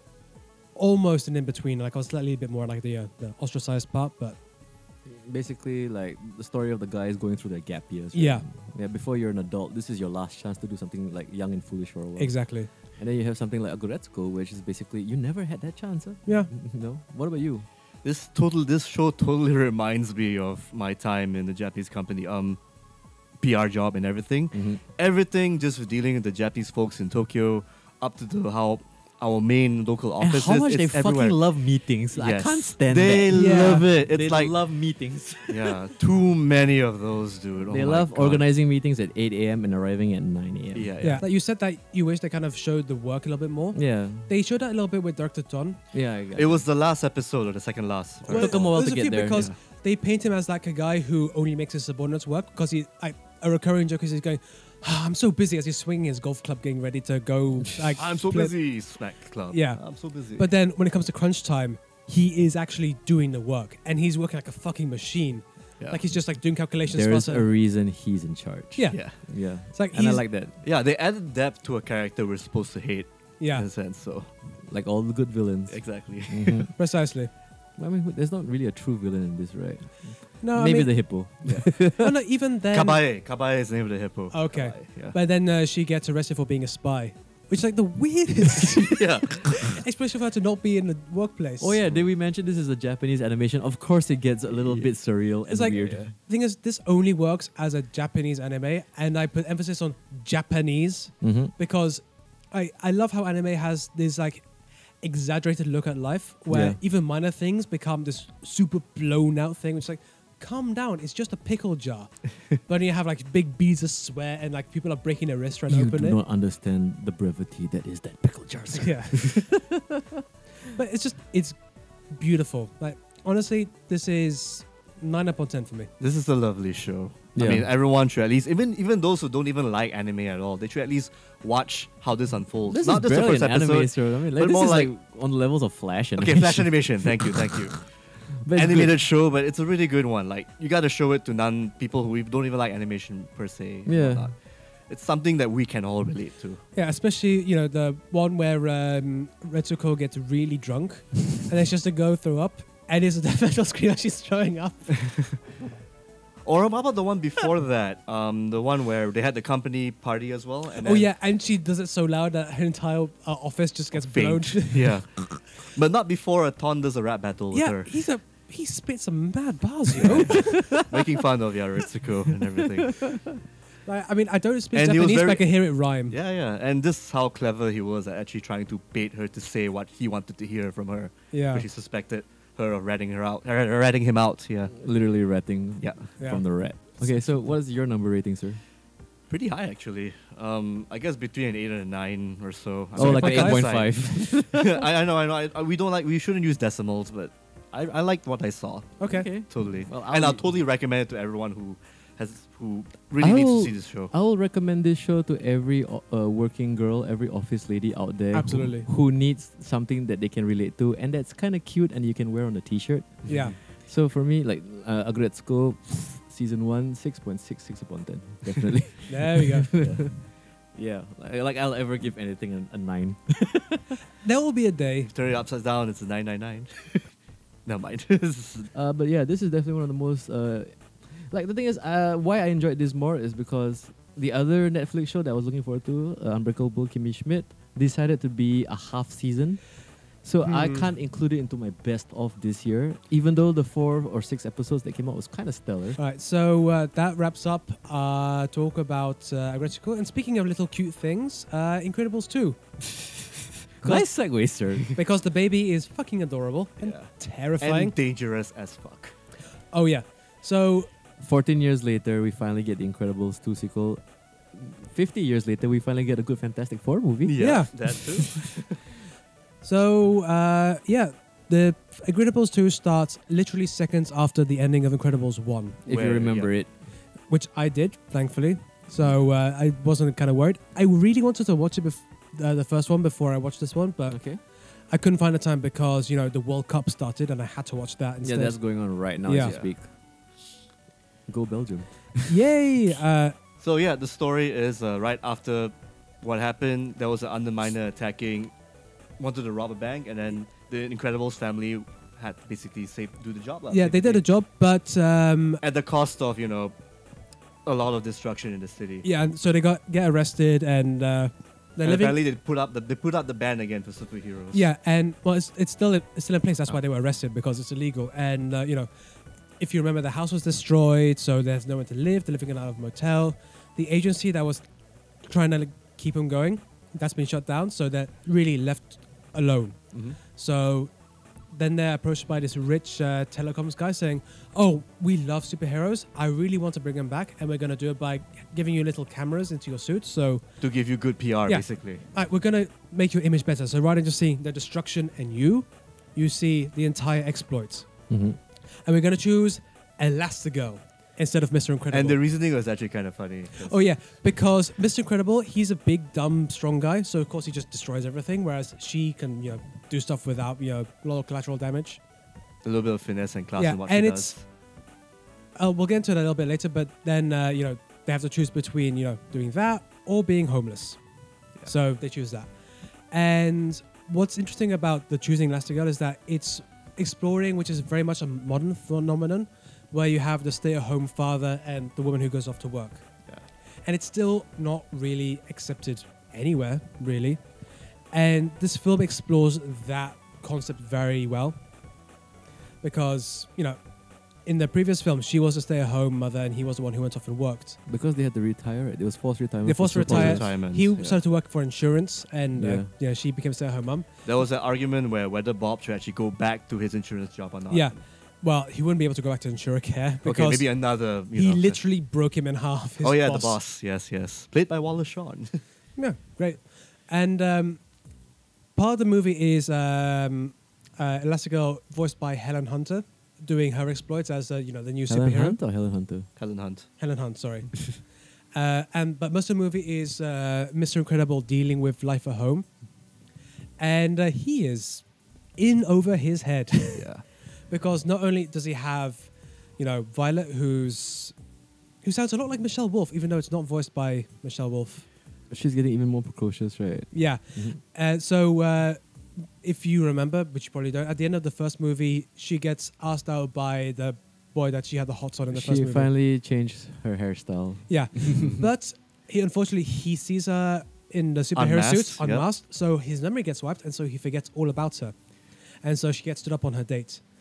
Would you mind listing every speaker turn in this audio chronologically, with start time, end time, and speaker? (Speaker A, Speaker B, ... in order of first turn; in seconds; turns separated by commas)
Speaker A: 0.8-4.4, Speaker B: 5.0-12.4, Speaker A: 8.1-8.4, Speaker A: 12.2-12.7, Speaker B: 13.0-17.6, Speaker C: 18.0-22.6, Speaker C: 23.4-31.4, Speaker B: 24.5-24.8, Speaker B: 30.2-35.9, Speaker C: 32.1-34.5, Speaker A: 33.3-33.9, Speaker C: 35.5-38.5, Speaker B: 37.7-41.2, Speaker C: 40.7-41.2, Speaker A: 41.0-45.8, Speaker B: 43.7-44.3, Speaker B: 45.9-46.6, Speaker C: 46.3-48.8, Speaker A: 48.3-58.5, Speaker B: 48.3-49.5, Speaker C: 58.0-60.5, Speaker A: 59.5-59.8, Speaker A: 60.4-67.5, Speaker B: 66.9-70.6, Speaker A: 68.8-69.0, Speaker A: 69.7-70.2, Speaker C: 70.6-74.3, Speaker A: 73.4-73.7, Speaker B: 74.7-76.7, Speaker C: 75.7-76.7, Speaker A: 76.8-77.3, Speaker B: 77.8-82.1, Speaker A: 80.4-81.0, Speaker C: 81.4-81.7, Speaker A: 81.8-83.0, Speaker C: 82.7-85.2, Speaker A: 84.3-91.8, Speaker C: 88.9-89.8, Speaker B: 91.6-96.1, Speaker C: 94.5-94.9, Speaker A: 95.5-104.5, Speaker C: 95.8-96.1, Speaker B: 101.2-101.5, Speaker A: 105.0-116.2, Speaker B: 106.5-106.8, Speaker B: 115.7-120.2, Speaker A: 118.7-119.5, Speaker A: 120.7-121.6, Speaker A: 122.1-125.9, Speaker C: 126.0-134.9, Speaker B: 127.3-127.7, Speaker B: 132.7-137.8, Speaker C: 136.2-137.9, Speaker B: 138.4-138.9, Speaker C: 138.5-144.4, Speaker B: 143.8-144.3, Speaker C: 144.9-146.6, Speaker A: 146.7-155.0, Speaker C: 155.0-155.4, Speaker C: 156.4-161.1, Speaker A: 160.8-165.0, Speaker C: 163.9-167.9, Speaker A: 167.5-170.8, Speaker C: 169.9-173.2, Speaker B: 170.2-171.1, Speaker B: 172.8-173.2, Speaker A: 173.8-176.1, Speaker C: 174.7-175.5, Speaker C: 176.1-184.7, Speaker A: 181.3-181.7, Speaker B: 184.7-188.6, Speaker C: 189.3-204.1, Speaker B: 192.9-194.8, Speaker A: 193.0-193.7, Speaker A: 199.0-199.3, Speaker B: 199.1-200.4, Speaker B: 203.2-224.0, Speaker A: 208.3-208.9, Speaker C: 213.3-213.5, Speaker A: 213.3-213.6, Speaker A: 219.1-219.7, Speaker C: 219.8-220.1, Speaker A: 224.2-225.1, Speaker C: 225.1-227.1, Speaker C: 227.7-228.7, Speaker B: 228.7-239.6, Speaker B: 240.2-246.0, Speaker A: 240.4-240.8, Speaker A: 245.9-252.6, Speaker B: 253.8-255.0, Speaker A: 254.9-257.9, Speaker C: 256.8-257.1, Speaker C: 257.6-259.1, Speaker A: 259.7-260.9, Speaker B: 261.2-264.0, Speaker B: 264.5-268.3, Speaker C: 267.2-268.8, Speaker A: 267.4-267.7, Speaker A: 269.6-275.8, Speaker C: 275.9-276.5, Speaker B: 275.9-276.7, Speaker A: 277.3-284.2, Speaker B: 284.1-284.4, Speaker A: 284.9-288.6, Speaker B: 288.2-289.9, Speaker A: 289.2-289.6, Speaker C: 289.4-289.7, Speaker B: 291.3-292.4, Speaker A: 292.3-293.3, Speaker C: 293.6-298.5, Speaker C: 299.2-304.2, Speaker A: 303.7-305.6, Speaker C: 305.6-306.7, Speaker C: 307.6-309.1, Speaker A: 309.0-312.2, Speaker C: 311.8-314.6, Speaker A: 314.5-318.9, Speaker A: 319.6-324.6, Speaker A: 325.2-330.9, Speaker A: 331.5-340.4, Speaker C: 340.6-342.0, Speaker A: 341.5-347.9, Speaker B: 348.1-348.4, Speaker A: 348.9-352.2, Speaker C: 351.9-353.8, Speaker A: 353.6-362.0, Speaker C: 362.6-364.4, Speaker A: 363.6-364.4, Speaker A: 365.6-371.0, Speaker A: 371.6-372.5, Speaker A: 373.1-383.0, Speaker A: 383.9-387.4, Speaker A: 388.1-391.6, Speaker A: 392.8-393.8, Speaker A: 394.4-397.8, Speaker B: 397.9-400.5, Speaker A: 399.6-404.1, Speaker C: 400.0-401.2, Speaker B: 402.6-402.9, Speaker C: 404.2-407.9, Speaker A: 407.7-410.8, Speaker C: 410.2-411.8, Speaker A: 411.3-413.6, Speaker C: 413.0-415.6, Speaker A: 416.0-417.8, Speaker A: 418.8-425.6, Speaker B: 425.1-426.3, Speaker C: 426.4-426.9, Speaker A: 427.0-427.9, Speaker A: 428.5-432.7, Speaker A: 433.8-435.0, Speaker A: 435.6-437.1, Speaker C: 436.9-437.2, Speaker A: 437.7-441.3, Speaker A: 442.0-445.0, Speaker B: 445.5-447.8, Speaker A: 447.1-449.0, Speaker A: 449.6-456.1, Speaker B: 455.5-458.5, Speaker A: 457.9-465.1, Speaker C: 458.4-458.6, Speaker C: 461.5-462.5, Speaker A: 465.8-467.2